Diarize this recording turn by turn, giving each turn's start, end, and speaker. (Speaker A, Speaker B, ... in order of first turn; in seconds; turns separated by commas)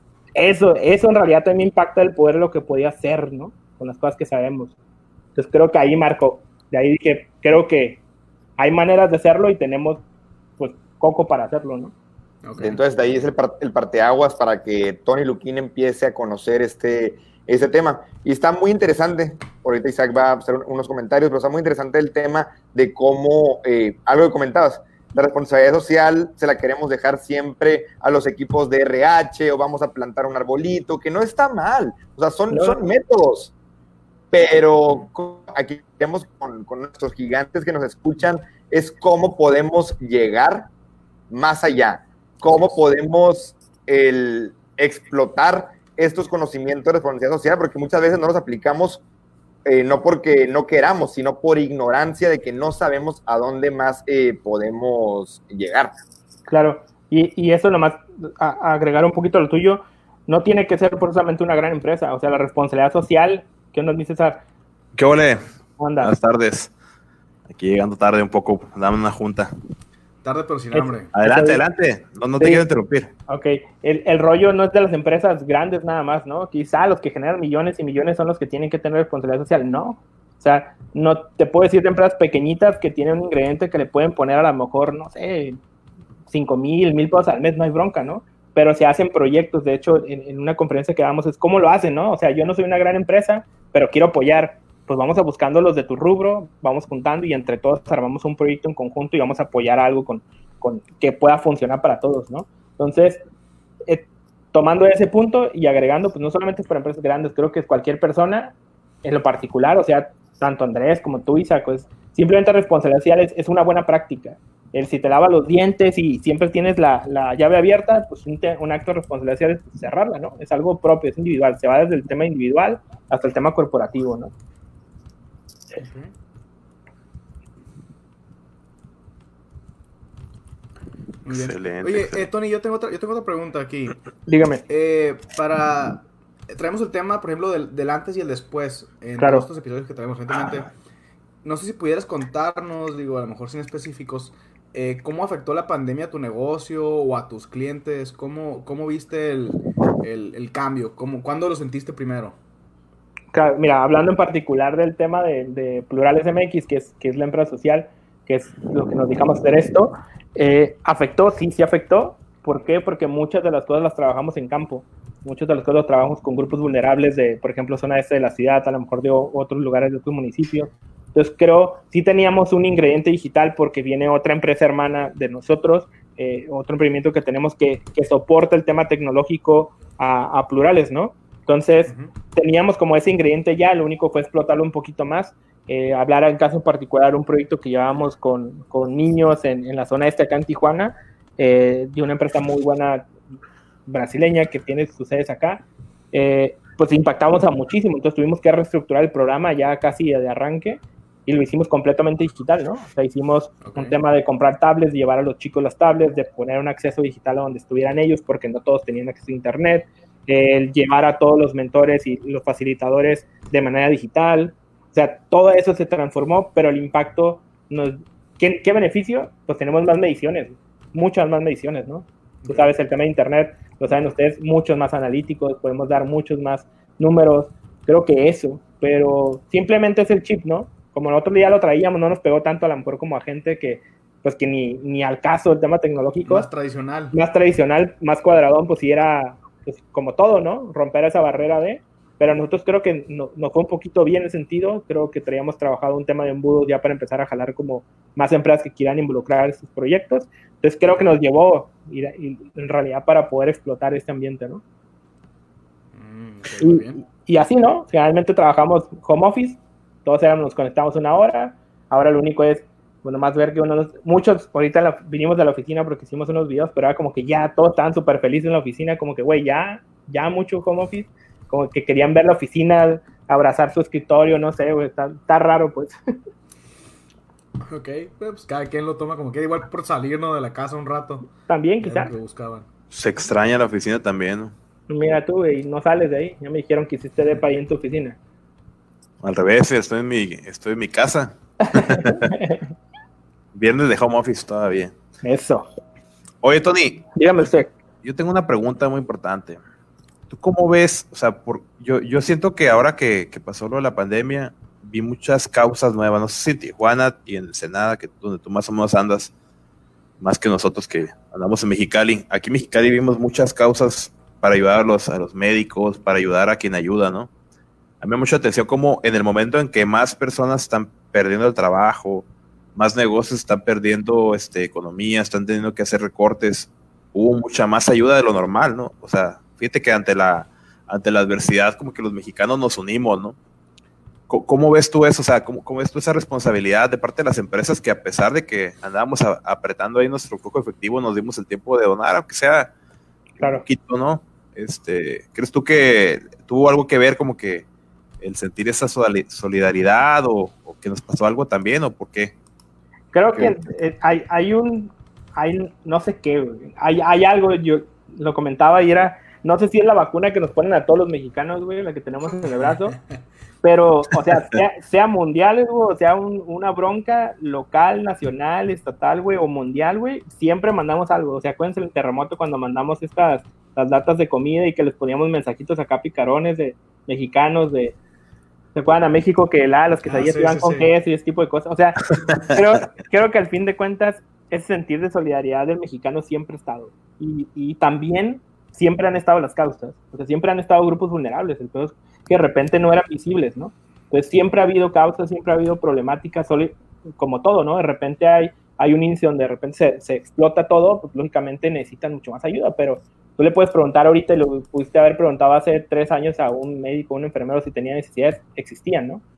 Speaker A: 0.3-4.7, Speaker A: 5.3-8.0, Speaker A: 8.6-10.0, Speaker A: 10.6-11.9, Speaker B: 12.4-12.8, Speaker C: 12.6-33.5, Speaker A: 32.5-32.8, Speaker C: 34.3-40.7, Speaker C: 41.3-49.0, Speaker C: 49.6-55.9, Speaker A: 56.5-64.4, Speaker D: 64.9-65.4, Speaker A: 65.8-66.1, Speaker D: 66.0-66.7, Speaker D: 67.5-69.5, Speaker B: 70.2-71.1, Speaker A: 70.7-71.6, Speaker D: 71.1-73.1, Speaker A: 72.4-72.6, Speaker A: 73.3-85.6, Speaker A: 86.3-103.2, Speaker A: 103.9-124.3, Speaker B: 125.8-126.1, Speaker B: 131.2-134.0, Speaker D: 131.3-132.2, Speaker A: 134.3-134.6, Speaker B: 134.7-140.7, Speaker A: 139.2-139.5, Speaker B: 141.4-152.3, Speaker A: 153.3-193.1, Speaker B: 181.9-182.1, Speaker A: 193.9-236.5, Speaker B: 203.6-204.0, Speaker B: 222.4-222.7, Speaker B: 236.2-237.2, Speaker A: 237.1-254.6, Speaker B: 255.9-257.0, Speaker A: 256.6-275.9, Speaker B: 277.6-281.3, Speaker A: 281.5-282.1, Speaker B: 281.8-282.6, Speaker D: 282.9-284.5, Speaker A: 284.9-288.2, Speaker D: 289.2-292.3, Speaker A: 291.7-292.6, Speaker D: 293.5-294.9, Speaker A: 295.2-295.6, Speaker D: 296.4-297.1, Speaker A: 297.1-297.7, Speaker D: 298.0-299.6, Speaker D: 300.3-309.3, Speaker D: 310.2-317.3, Speaker D: 318.0-333.4, Speaker D: 334.3-342.7, Speaker A: 343.4-343.6, Speaker D: 343.4-347.6, Speaker D: 348.2-352.3, Speaker A: 353.1-362.9, Speaker A: 363.6-377.9, Speaker A: 378.7-409.2, Speaker B: 380.1-380.9